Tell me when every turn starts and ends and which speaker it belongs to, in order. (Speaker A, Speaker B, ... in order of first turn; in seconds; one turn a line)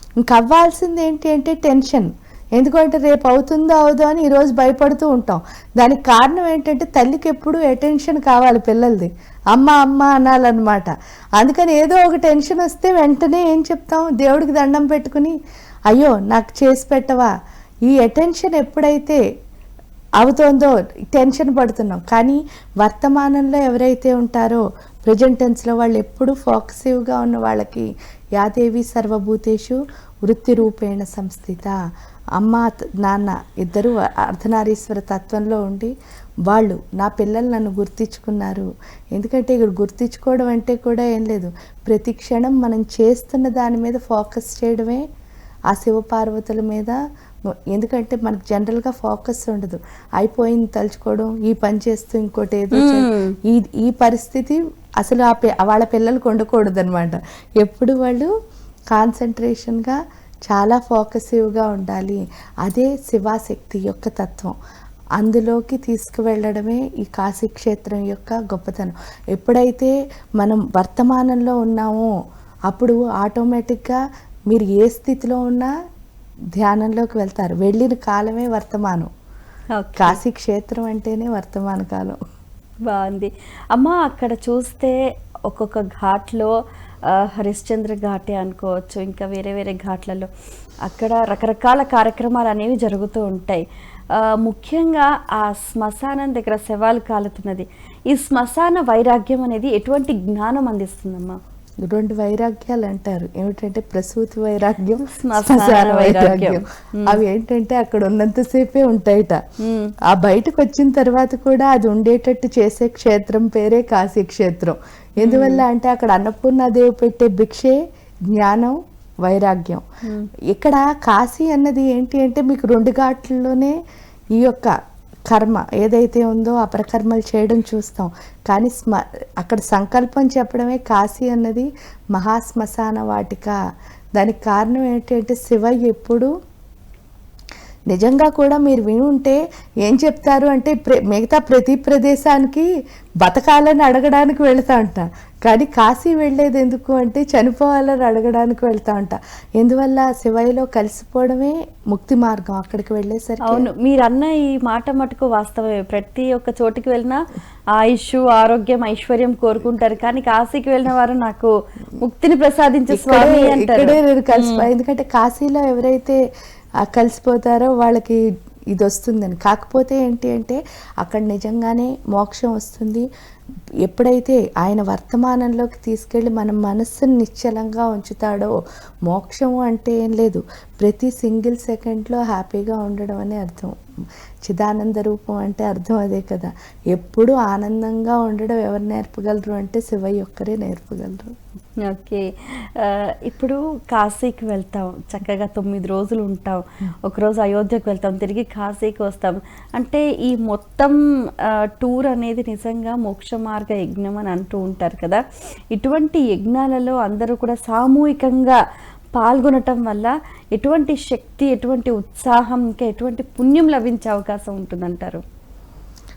Speaker A: 0.2-15.3
Speaker A: 15.9-17.3
Speaker A: 17.9-19.2
Speaker A: 20.2-31.8
Speaker A: 32.4-35.9
Speaker A: 36.5-45.0
Speaker A: 45.7-47.0
Speaker A: 47.7-58.3
Speaker B: 52.7-53.3
Speaker A: 58.9-60.0
Speaker A: 60.5-64.5
Speaker A: 65.2-72.1
Speaker A: 72.7-74.0
Speaker A: 74.5-75.7
Speaker A: 76.6-79.1
Speaker B: 79.8-80.2
Speaker A: 80.0-82.2
Speaker B: 82.9-85.0
Speaker B: 85.5-86.5
Speaker B: 87.1-90.3
Speaker B: 90.8-101.4
Speaker A: 101.8-109.4
Speaker B: 105.0-107.2
Speaker B: 109.6-109.9
Speaker A: 110.1-117.8
Speaker B: 115.2-115.6
Speaker A: 118.3-119.8
Speaker A: 120.5-123.8
Speaker A: 124.3-124.7
Speaker A: 125.3-133.6
Speaker A: 134.2-136.3
Speaker A: 137.9-142.7
Speaker A: 143.2-153.7
Speaker B: 153.4-157.2
Speaker B: 157.7-164.7
Speaker A: 162.9-166.2
Speaker A: 166.8-168.2
Speaker A: 168.7-173.1
Speaker A: 173.8-178.5
Speaker A: 179.1-183.7
Speaker A: 184.4-191.3
Speaker B: 191.8-208.6
Speaker B: 209.2-215.2